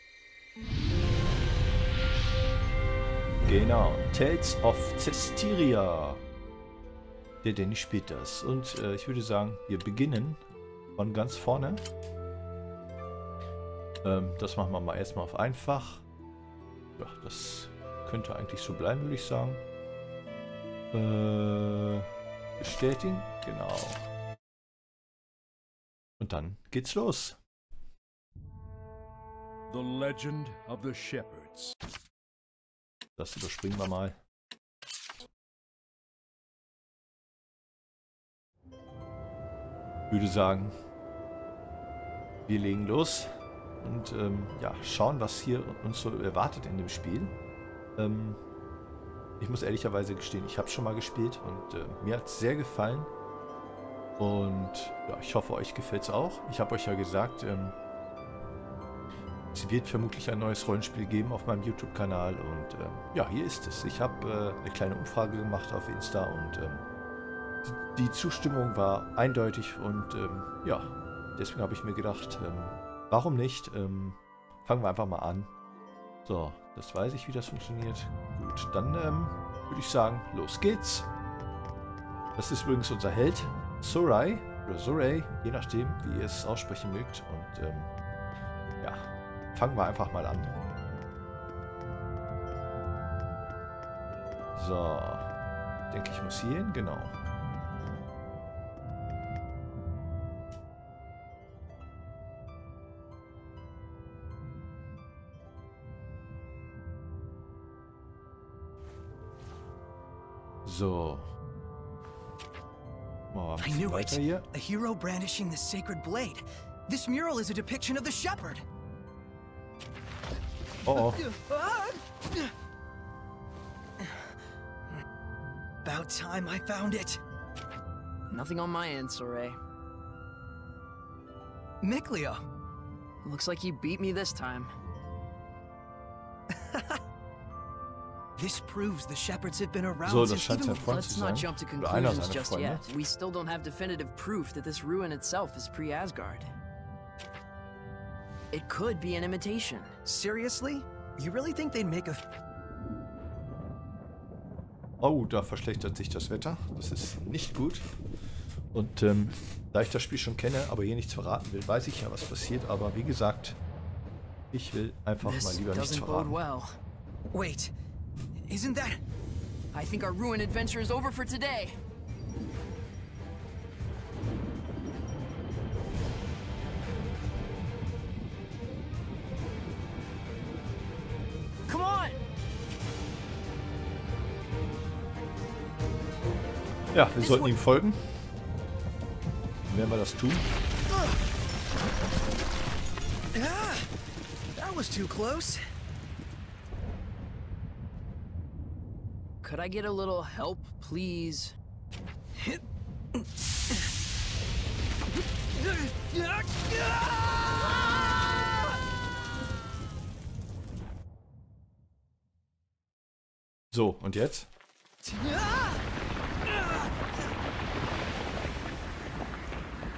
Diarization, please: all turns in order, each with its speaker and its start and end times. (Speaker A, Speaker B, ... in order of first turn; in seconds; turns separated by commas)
Speaker A: 3.4-6.2, Speaker A: 7.4-10.4, Speaker A: 10.9-11.8, Speaker A: 14.0-16.0, Speaker A: 17.0-19.6, Speaker A: 20.9-22.1, Speaker A: 22.6-24.1, Speaker A: 26.2-27.4, Speaker B: 29.7-31.7, Speaker A: 33.2-34.2, Speaker A: 40.1-40.7, Speaker A: 42.5-47.3, Speaker A: 48.0-48.4, Speaker A: 49.4-53.1, Speaker A: 54.2-57.8, Speaker A: 59.5-66.8, Speaker A: 67.6-75.5, Speaker A: 76.2-81.1, Speaker A: 82.3-87.9, Speaker A: 88.8-90.5, Speaker A: 94.6-95.3, Speaker A: 95.9-97.2, Speaker A: 110.7-111.3, Speaker A: 113.3-114.5, Speaker C: 113.6-118.6, Speaker A: 120.8-121.2, Speaker C: 120.8-122.5, Speaker C: 124.0-124.3, Speaker C: 125.8-127.2, Speaker D: 128.3-129.6, Speaker C: 131.8-132.4, Speaker D: 133.2-134.7, Speaker C: 136.5-137.0, Speaker C: 138.4-140.9, Speaker A: 140.0-142.8, Speaker D: 140.7-146.5, Speaker D: 148.5-149.9, Speaker C: 150.0-152.2, Speaker A: 155.0-157.9, Speaker A: 158.7-163.6, Speaker A: 164.5-166.4, Speaker D: 165.2-166.8, Speaker C: 167.3-167.7, Speaker C: 168.5-169.0, Speaker D: 169.7-171.8, Speaker D: 181.7-182.2, Speaker A: 186.9-188.1, Speaker C: 187.2-187.5, Speaker A: 189.7-190.4, Speaker C: 190.9-191.2, Speaker C: 193.3-193.9, Speaker C: 194.6-195.6, Speaker D: 199.4-201.6, Speaker C: 203.1-203.9, Speaker C: 205.5-208.8, Speaker A: 213.7-214.5, Speaker C: 215.0-215.8, Speaker C: 216.5-216.9